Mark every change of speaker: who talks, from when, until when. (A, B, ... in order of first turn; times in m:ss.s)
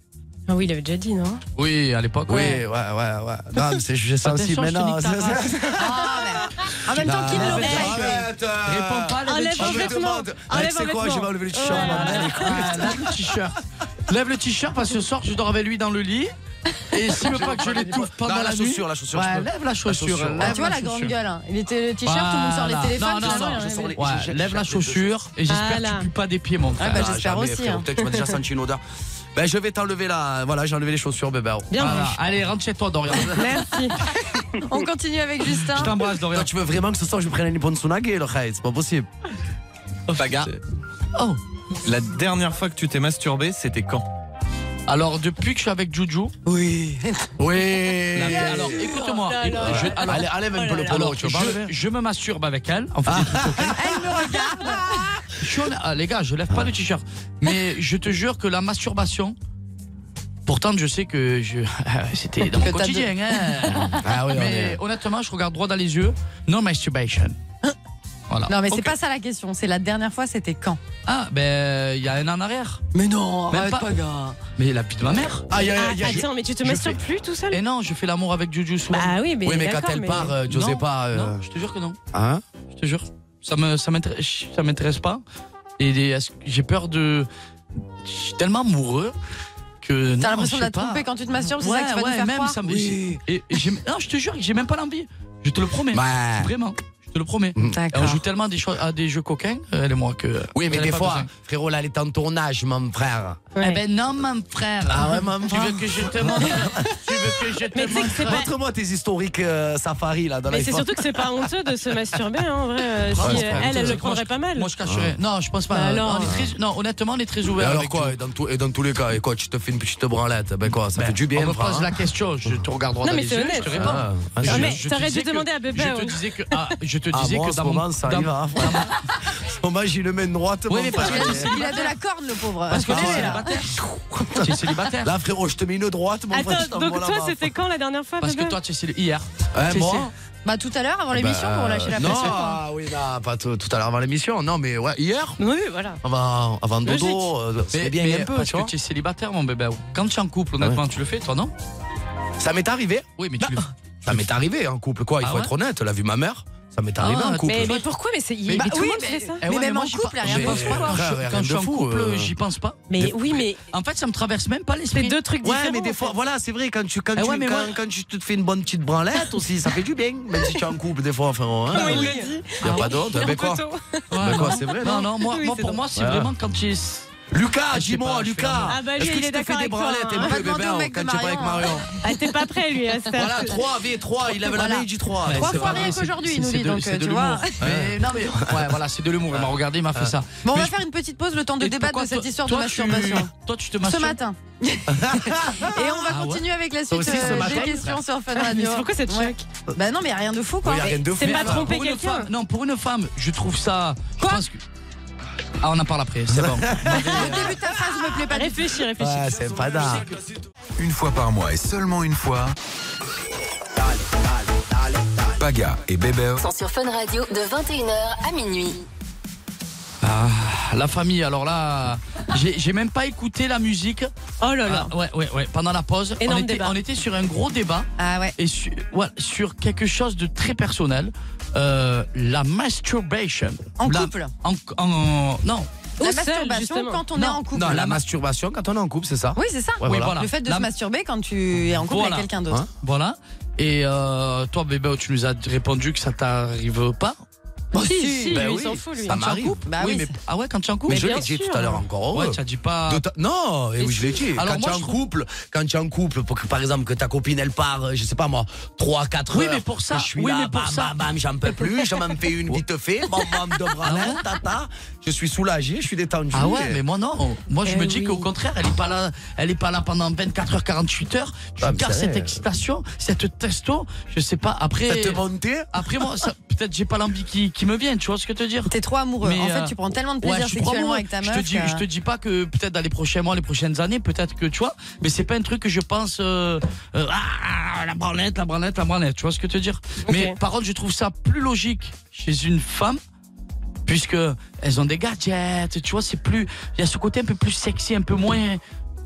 0:00.5-0:01.4 A
0:01.6-0:02.6 B
0:02.3-0:13.1 C
0:04.2-0:05.7 B
0:05.8-0:08.2 D
0:07.3-0:10.1 B
0:07.4-0:07.9 A
0:09.3-0:12.7 A
0:11.7-0:16.3 B
0:16.9-0:21.1 B
0:17.2-0:20.6 C
0:20.4-0:23.9 D
0:22.0-0:27.1 B
0:23.1-0:25.1 C
0:25.5-0:26.1 A
0:26.8-0:27.9 D
0:26.8-0:28.8 C
0:29.4-0:32.2 C
0:31.7-0:32.1 A
0:31.8-0:33.8 B
0:33.3-0:34.0 A
0:34.6-0:35.9 D
0:35.7-0:36.5 B
0:36.3-0:39.1 C
0:40.1-0:40.6 B
0:40.2-0:40.5 E
0:41.8-0:44.0 E
0:44.9-0:46.4 B
0:47.4-0:48.9 C
0:48.1-0:53.8 B
0:48.8-0:50.0 A
0:49.6-0:51.7 C
0:50.6-0:50.9 A
0:53.1-0:55.3 C
0:53.7-0:54.8 D
0:55.4-0:59.4 B
1:00.5-1:07.4 B
1:02.6-1:03.1 D
1:03.9-1:04.8 C
1:08.3-1:08.9 B
1:08.5-1:10.8 D
1:11.1-1:12.8 B
1:12.9-1:14.4 C
1:13.5-1:15.5 B
1:15.5-1:17.0 C
1:15.7-1:17.6 A
1:17.5-1:19.2 B
1:18.9-1:20.3 A
1:19.4-1:21.4 C
1:20.5-1:22.0 B
1:22.1-1:22.4 C
1:22.8-1:25.2 B
1:25.8-1:27.3 B
1:28.0-1:29.1 B
1:29.8-1:41.3 B
1:30.2-1:32.6 D
1:32.6-1:33.2 C
1:35.9-1:36.5 C
1:37.6-1:38.2 D
1:40.5-1:43.4 C
1:43.6-1:48.5 B
1:44.9-1:47.2 C
1:47.7-1:48.5 A
1:48.2-1:51.3 C
1:50.5-1:54.7 A
1:53.1-1:58.2 B
1:53.1-1:54.0 C
1:54.8-1:55.2 C
1:55.7-1:56.4 A
1:56.2-1:56.5 C
1:57.6-2:02.0 C
2:01.0-2:09.0 B
2:03.0-2:06.6 A
2:03.6-2:04.8 C
2:07.1-2:11.6 C
2:10.7-2:11.9 B
2:11.0-2:13.5 D
2:12.7-2:15.1 B
2:12.9-2:17.5 C
2:16.3-2:18.6 A
2:18.2-2:20.1 B
2:19.5-2:20.1 C
2:20.4-2:22.6 D
2:21.1-2:25.4 C
2:25.4-2:26.0 A
2:26.0-2:28.7 C
2:26.8-2:27.3 A
2:27.7-2:31.5 B
2:32.4-2:37.8 C
2:33.2-2:34.2 B
2:35.2-2:35.5 B
2:37.0-2:37.9 B
2:37.5-2:39.4 A
2:38.5-2:43.1 B
2:38.6-2:41.0 D
2:40.2-2:42.3 C
2:42.9-2:43.6 A
2:43.7-2:45.2 B
2:44.9-2:46.1 A
2:45.4-2:53.6 C
2:47.2-2:47.8 B
2:51.7-2:53.0 B
2:51.7-2:54.5 A
2:54.1-2:57.1 B
2:54.2-2:55.1 C
2:55.3-2:55.8 A
2:56.0-2:56.3 C
2:57.3-3:01.9 C
2:57.7-2:58.8 B
2:58.7-3:00.4 A
3:00.2-3:01.9 D
3:02.0-3:03.6 A
3:03.1-3:06.0 C
3:04.5-3:07.6 D
3:05.3-3:10.7 B
3:07.6-3:08.8 C
3:09.3-3:10.1 C
3:10.4-3:13.3 D
3:11.6-3:14.2 B
3:13.8-3:21.1 D
3:14.9-3:15.7 C
3:16.1-3:18.0 B
3:16.9-3:17.9 C
3:18.3-3:19.4 A
3:20.6-3:21.7 C
3:20.8-3:22.3 A
3:21.2-3:24.6 B
3:25.6-3:27.5 B
3:26.3-3:27.5 C
3:27.0-3:28.7 D
3:28.3-3:29.4 A
3:29.0-3:30.1 C
3:30.8-3:32.6 F
3:34.0-3:35.2 C
3:35.4-3:36.4 F
3:36.4-3:38.9 G
3:40.0-3:44.1 B
3:44.4-3:44.9 A
3:44.6-3:55.7 B
3:46.2-3:46.8 A
3:48.0-3:48.4 D
3:53.8-3:54.3 D
3:56.0-3:57.0 A
3:56.0-3:57.8 D
3:57.1-3:58.0 B
3:57.5-4:00.2 C
3:59.4-4:02.6 D
3:59.8-4:00.7 B
4:01.8-4:02.3 B
4:02.8-4:07.2 B
4:07.8-4:08.4 D
4:07.8-4:09.2 A
4:07.8-4:09.6 C
4:09.1-4:11.1 B
4:09.7-4:10.1 D
4:10.9-4:26.8 C
4:10.9-4:11.8 A
4:12.1-4:13.0 B
4:13.9-4:15.0 B
4:19.3-4:20.9 B
4:23.8-4:24.2 B
4:26.3-4:38.7 B
4:27.7-4:28.2 A
4:31.6-4:32.4 C
4:34.9-4:35.7 C
4:38.7-4:41.8 D
4:39.2-4:53.0 B
4:50.1-4:50.4 A
4:53.9-4:58.6 B